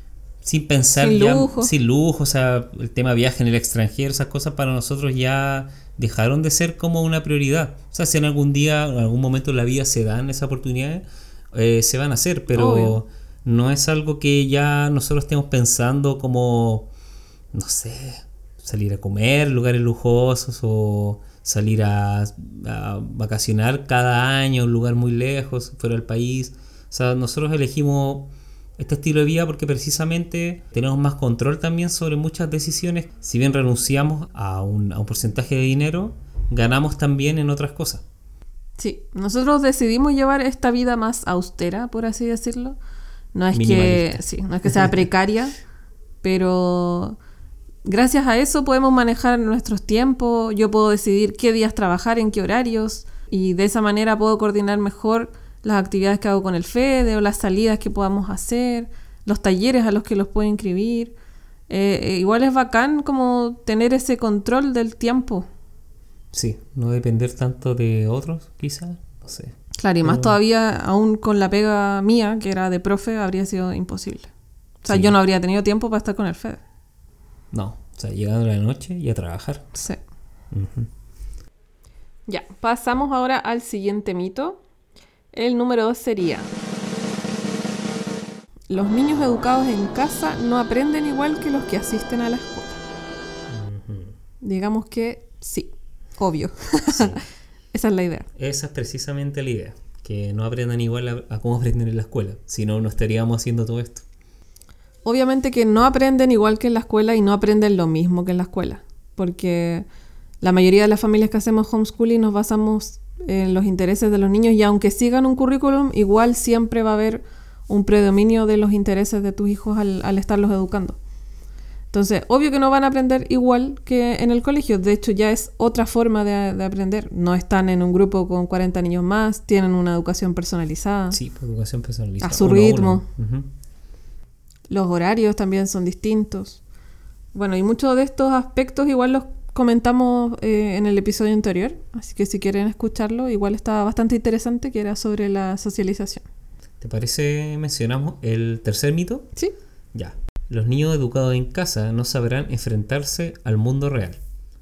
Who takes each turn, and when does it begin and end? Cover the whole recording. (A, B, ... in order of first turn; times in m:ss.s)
0:00.4-0:16.9 A
0:01.0-0:01.7 B
0:12.5-0:13.0 B
0:17.5-0:38.0 A
0:38.8-0:42.8 B
0:43.3-0:45.5 B
0:43.5-0:45.0 A
0:46.2-0:47.2 B
0:47.8-1:01.1 B
1:01.7-1:05.5 B
1:06.3-1:10.4 A
1:09.8-1:14.3 B
1:14.8-1:16.6 B
1:14.9-1:15.1 A
1:17.5-1:19.7 A
1:19.7-1:20.0 B
1:20.5-1:20.9 A
1:22.3-1:24.6 B
1:25.3-1:26.5 B
1:28.7-1:32.8 B
1:33.5-1:34.2 A
1:34.4-1:38.3 B
1:36.9-1:37.2 A
1:38.4-1:44.0 A
1:45.0-1:49.8 B
1:50.4-2:01.0 B
2:01.9-2:11.2 B
2:11.1-2:13.5 A
2:12.2-2:13.0 B
2:14.7-2:16.6 B
2:17.3-2:26.2 B
2:26.8-2:29.3 A
2:29.9-2:34.2 A